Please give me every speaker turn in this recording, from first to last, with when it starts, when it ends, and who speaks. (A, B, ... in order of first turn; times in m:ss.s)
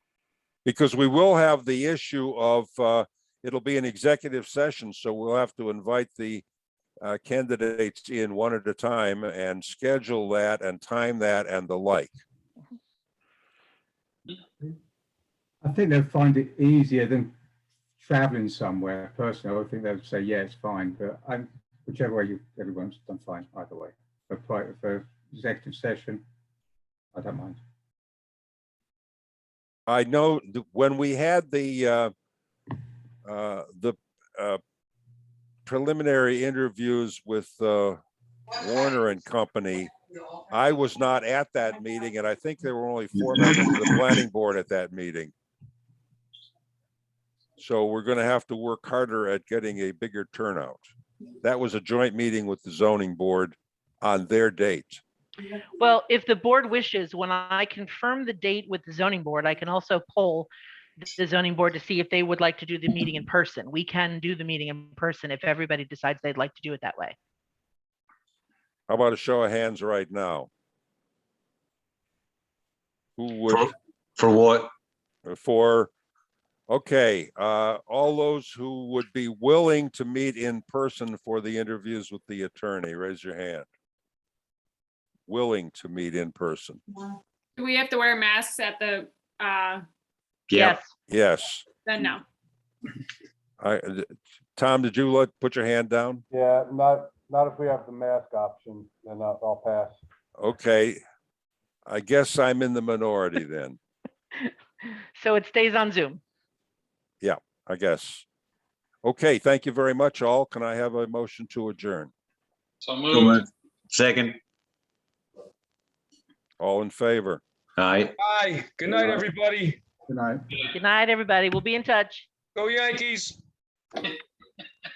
0:00.6-0:06.4 A
0:07.0-0:12.1 A
0:15.6-0:17.3 B
0:18.0-0:26.2 B
0:27.1-0:27.6 B
0:29.9-0:32.1 A
0:33.2-0:34.6 A
0:35.6-0:38.0 A
0:38.6-0:39.9 A
0:40.5-0:45.3 A
0:47.6-0:50.9 A
0:51.4-0:55.0 A
0:55.8-1:00.5 C
1:01.0-1:07.2 C
1:08.9-1:10.5 A
1:13.2-1:13.7 A
1:13.5-1:14.7 D
1:15.2-1:15.9 A
1:16.7-1:23.6 A
1:25.3-1:26.8 A
1:27.6-1:29.8 E
1:30.5-1:30.8 D
1:30.6-1:30.9 C
1:31.1-1:31.6 A
1:31.8-1:32.2 E
1:33.6-1:36.2 A
1:36.3-1:40.0 F
1:40.4-1:41.0 A
1:41.8-1:43.8 A
1:45.1-1:46.2 C
1:47.2-1:48.2 A
1:49.0-1:52.1 A
1:52.8-1:53.4 G
1:53.0-1:54.4 D
1:56.6-1:57.4 A
1:57.8-1:58.1 D
1:58.2-1:59.8 G
1:58.9-1:59.3 B
2:00.0-2:00.4 B
2:00.7-2:02.3 C
2:02.6-2:03.4 G